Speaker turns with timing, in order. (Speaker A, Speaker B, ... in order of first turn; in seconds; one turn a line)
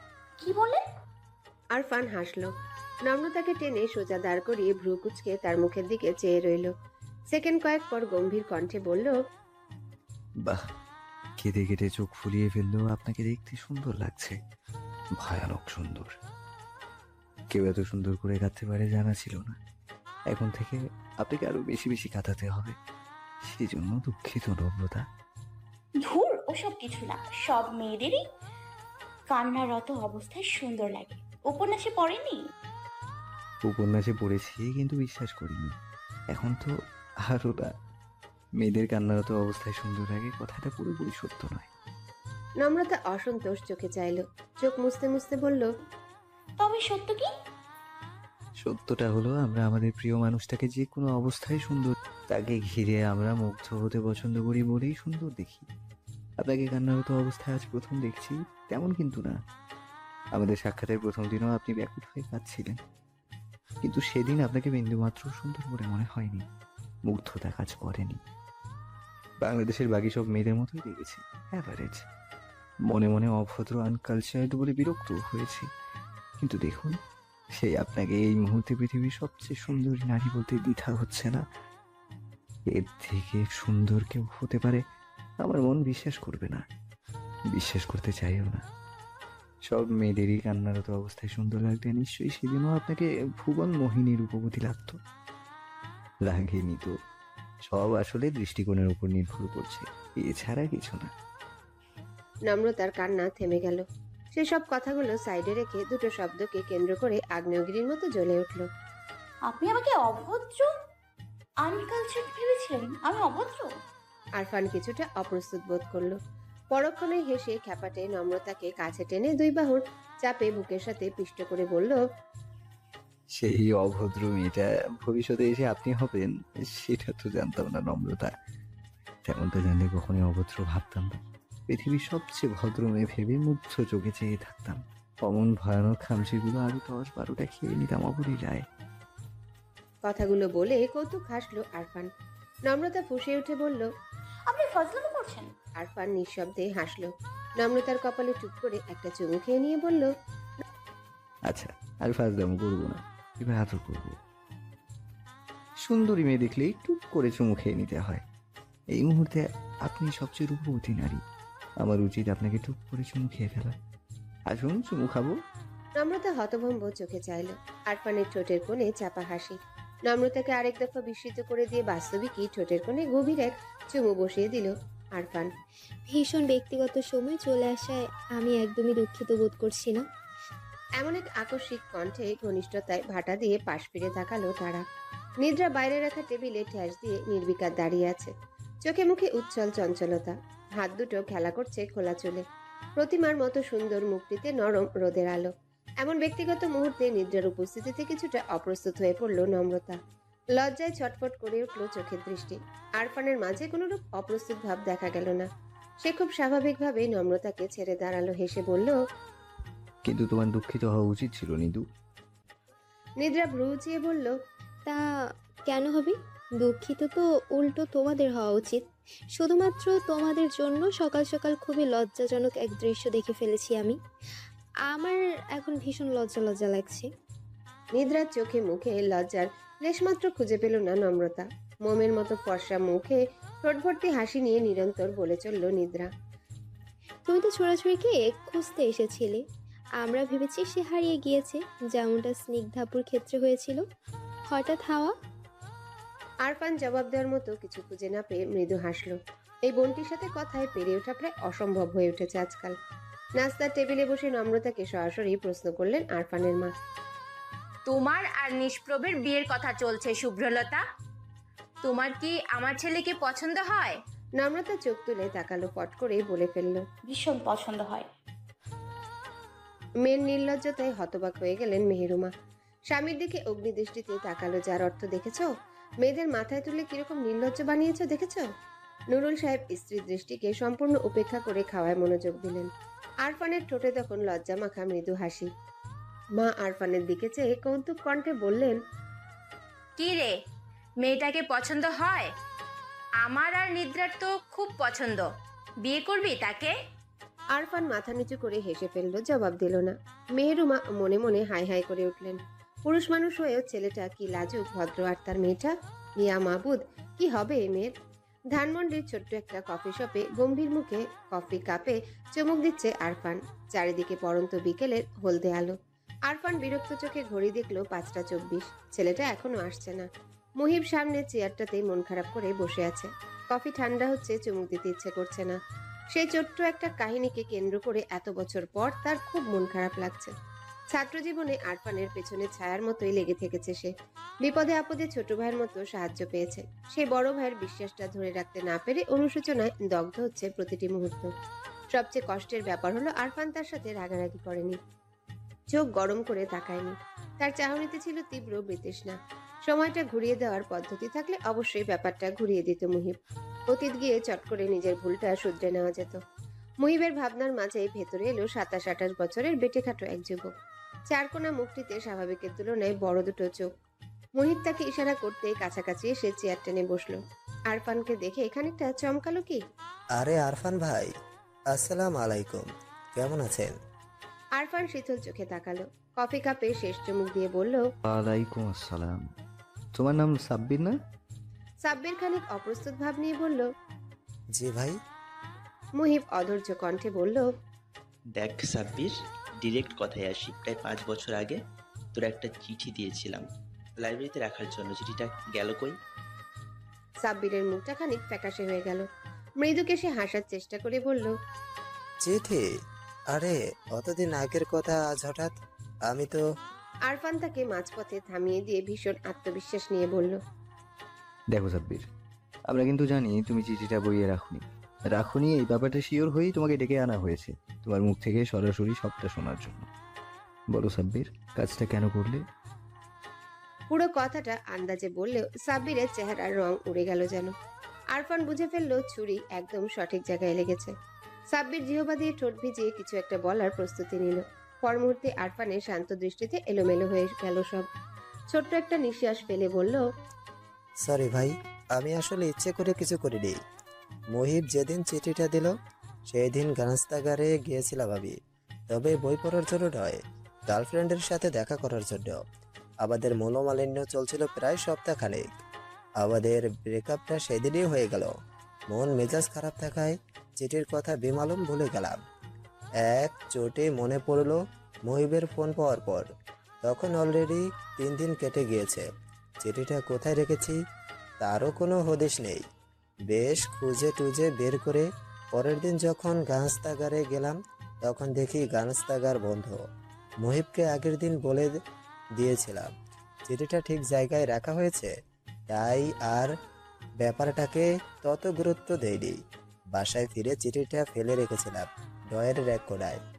Speaker A: 0.4-0.8
Speaker B: 1.7-2.5
Speaker B: 3.0-6.7
Speaker B: 7.3-9.2
Speaker C: 11.4-14.4
Speaker C: 15.1-16.2
Speaker C: 17.5-19.6
Speaker C: 20.3-22.8
Speaker C: 23.4-25.1
Speaker A: 26.0-28.2
Speaker A: 29.3-32.4
Speaker C: 33.6-35.7
Speaker C: 36.3-36.7
Speaker C: 37.2-37.7
Speaker C: 38.6-41.7
Speaker B: 42.6-45.7
Speaker A: 46.6-47.3
Speaker C: 48.6-55.6
Speaker C: 56.4-59.4
Speaker C: 60.3-62.8
Speaker C: 63.8-66.5
Speaker C: 67.0-68.2
Speaker C: 69.4-72.0
Speaker C: 72.9-75.7
Speaker C: 76.4-77.0
Speaker C: 77.5-81.4
Speaker C: 82.7-84.8
Speaker C: 85.4-86.7
Speaker C: 87.5-88.6
Speaker C: 89.6-95.0
Speaker C: 96.2-96.9
Speaker C: 97.6-101.1
Speaker B: 102.5-108.7
Speaker A: 109.5-110.7
Speaker A: 111.6-113.7
Speaker B: 114.4-116.2
Speaker B: 116.7-122.0
Speaker C: 123.3-128.3
Speaker C: 129.2-138.7
Speaker B: 140.0-142.1
Speaker B: 142.7-143.9
Speaker A: 144.5-145.5
Speaker B: 145.8-150.1
Speaker C: 151.5-154.2
Speaker C: 155.8-158.2
Speaker C: 158.9-161.2
Speaker C: 161.8-163.8
Speaker C: 164.5-165.3
Speaker B: 166.0-169.6
Speaker B: 170.1-175.5
Speaker D: 176.1-180.0
Speaker B: 181.0-184.8
Speaker B: 185.4-188.3
Speaker B: 188.8-192.4
Speaker B: 193.0-195.5
Speaker B: 196.0-200.0
Speaker B: 200.6-205.5
Speaker B: 206.0-209.0
Speaker C: 210.0-211.8
Speaker B: 213.2-214.3
Speaker D: 215.7-218.8
Speaker D: 219.4-224.0
Speaker D: 224.8-227.1
Speaker B: 227.9-236.1
Speaker D: 237.3-239.4
Speaker D: 240.0-243.8
Speaker D: 244.5-245.1
Speaker B: 246.4-252.7
Speaker B: 253.4-256.7
Speaker E: 257.8-260.9
Speaker E: 261.8-264.0
Speaker B: 264.4-266.8
Speaker A: 267.1-268.1
Speaker B: 270.0-272.3
Speaker B: 272.9-275.5
Speaker B: 276.0-278.5
Speaker B: 279.1-282.7
Speaker B: 283.2-285.5
Speaker B: 286.4-288.8
Speaker E: 290.0-290.4
Speaker E: 291.0-292.3
Speaker E: 293.2-295.3
Speaker E: 295.8-296.8
Speaker B: 297.5-307.9
Speaker B: 308.5-315.7
Speaker B: 316.3-320.1
Speaker B: 320.6-325.6
Speaker B: 326.1-330.3
Speaker B: 330.9-333.9
Speaker B: 334.4-341.3
Speaker B: 341.9-344.8
Speaker B: 345.7-353.1
Speaker B: 353.7-356.2
Speaker B: 356.8-360.5
Speaker B: 361.1-363.7
Speaker B: 364.4-367.2
Speaker B: 367.7-369.6
Speaker F: 370.1-371.1
Speaker F: 371.7-373.7
Speaker B: 374.6-377.8
Speaker C: 378.1-379.1
Speaker C: 380.0-380.9
Speaker B: 381.8-383.7
Speaker F: 384.6-385.0
Speaker B: 386.0-387.5
Speaker G: 388.3-391.6
Speaker G: 392.1-396.0
Speaker B: 397.2-399.0
Speaker B: 399.6-401.3
Speaker F: 402.2-402.6
Speaker F: 403.3-405.5
Speaker F: 406.1-406.4
Speaker B: 407.1-410.4
Speaker C: 411.5-412.1
Speaker C: 412.7-419.9
Speaker C: 420.7-422.4
Speaker B: 423.9-427.5
Speaker B: 428.1-430.9
Speaker B: 431.5-437.8
Speaker B: 438.5-440.0
Speaker F: 441.0-443.6
Speaker F: 444.3-445.7
Speaker F: 446.3-448.4
Speaker F: 448.9-452.4
Speaker F: 453.0-455.5
Speaker F: 456.2-458.3
Speaker F: 458.9-462.2
Speaker F: 463.0-466.3
Speaker F: 466.8-469.1
Speaker F: 469.6-470.8
Speaker F: 471.4-472.6
Speaker F: 473.3-479.8
Speaker F: 480.4-481.8
Speaker F: 482.4-482.9
Speaker F: 483.5-485.1
Speaker F: 485.7-486.5
Speaker F: 487.2-489.4
Speaker F: 489.9-493.2